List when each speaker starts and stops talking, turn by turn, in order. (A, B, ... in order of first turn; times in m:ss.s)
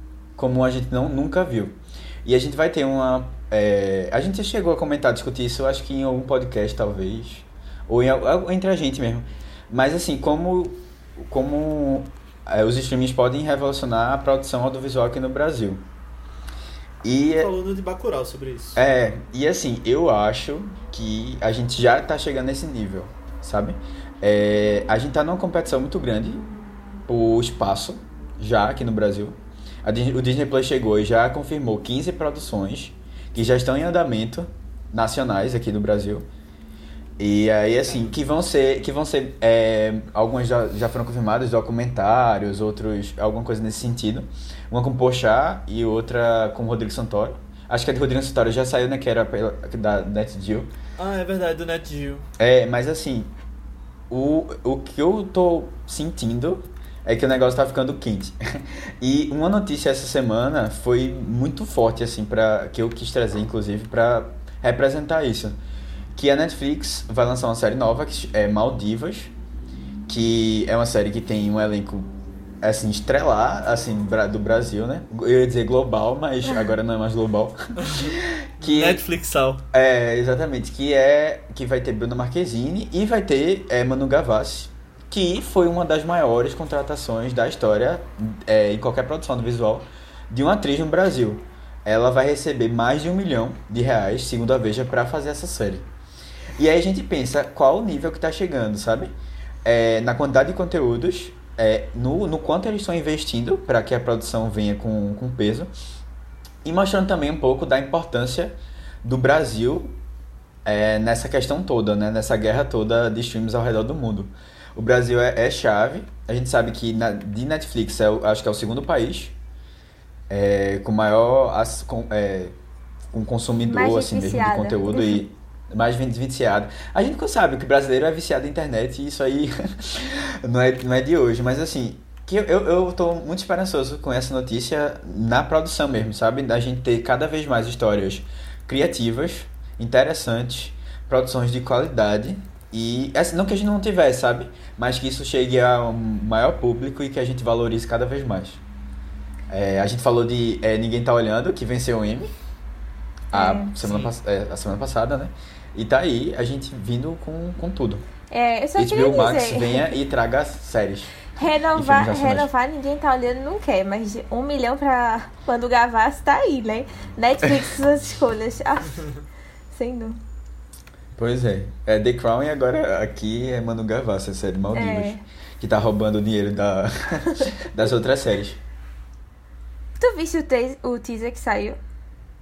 0:00.4-0:15.8 A
0:17.0-0:17.5 A
0:17.4-0:18.8 B
0:18.8-0:26.5 A
0:27.1-0:36.3 A
0:37.2-0:50.7 A
0:37.8-0:38.2 B
0:51.0-0:52.3 B
0:52.4-0:53.3 A
0:54.1-1:05.6 A
1:06.2-1:09.3 A
1:10.1-1:12.1 A
1:12.6-1:19.0 A
1:17.8-1:19.6 B
1:19.7-1:35.9 A
1:36.6-1:45.7 A
1:46.6-1:50.0 A
1:50.6-1:59.4 A
2:00.3-2:02.6 A
2:03.1-2:28.6 A
2:03.7-2:05.2 C
2:29.5-2:32.3 A
2:33.3-2:33.7 C
2:33.3-2:38.0 A
2:33.8-2:34.1 B
2:38.3-2:39.9 C
2:38.8-2:41.2 A
2:41.4-2:49.1 C
2:41.7-2:42.5 A
2:49.7-2:50.2 C
2:51.2-2:58.6 A
2:54.7-2:55.2 C
3:00.0-3:01.8 C